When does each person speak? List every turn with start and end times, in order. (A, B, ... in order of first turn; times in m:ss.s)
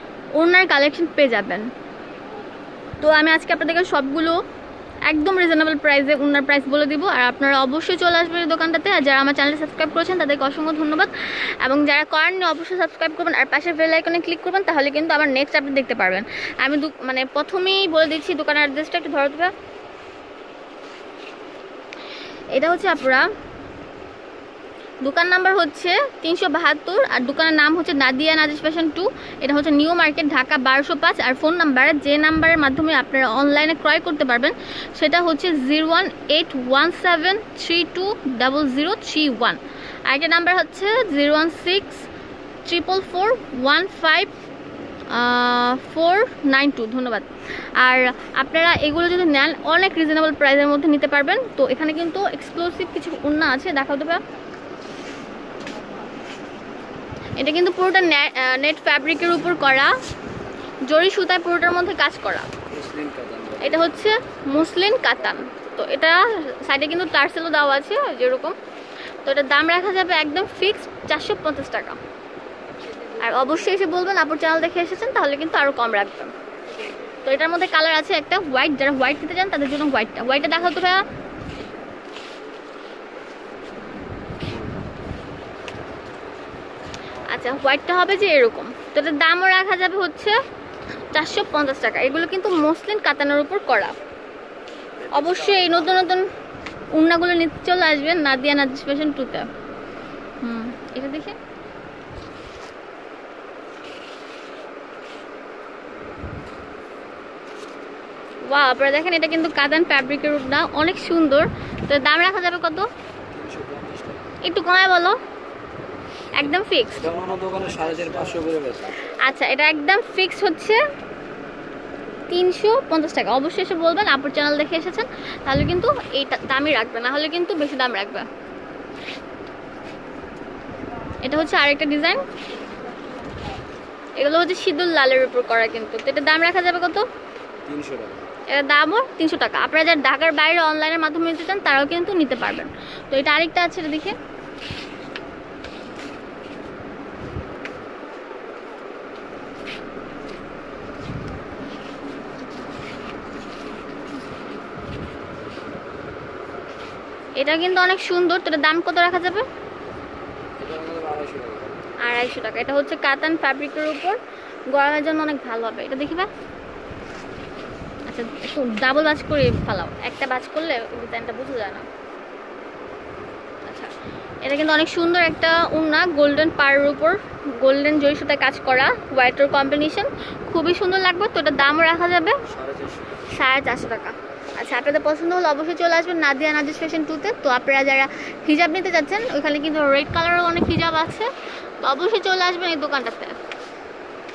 0:00.4-0:01.7 A
0:03.0-0:04.4 A
0:05.1-0:19.5 A
0:22.5-0:23.3 A
0:25.0-0:42.1 A
0:42.6-0:44.3 A
0:45.1-0:54.2 A
0:57.4-0:59.9 A
1:00.9-1:02.5 A
1:02.7-1:04.0 B
1:03.6-1:08.6 A
1:09.2-1:12.0 A
1:13.2-1:16.3 A
1:17.2-1:21.1 A
1:27.2-1:30.4 A
1:31.1-1:34.0 A
1:35.0-1:36.0 B
1:35.1-1:36.3 A
1:36.9-1:39.5 A
1:40.4-1:41.4 A
1:48.5-1:52.9 A
1:53.3-1:54.3 B
1:54.4-1:55.2 A
1:56.4-1:57.1 A
1:57.0-1:59.0 B
1:59.1-2:00.8 A
2:02.3-2:08.3 A
2:11.2-2:12.3 A
2:14.2-2:17.1 A
2:17.7-2:18.2 B
2:18.5-2:24.2 A
2:37.4-2:39.5 A
2:40.6-2:41.8 B
2:42.0-2:44.2 A
2:44.7-2:46.3 A
2:48.1-2:51.9 A
2:53.6-2:53.9 A
2:54.4-3:02.4 A
3:02.5-3:03.2 B
3:03.3-3:13.4 A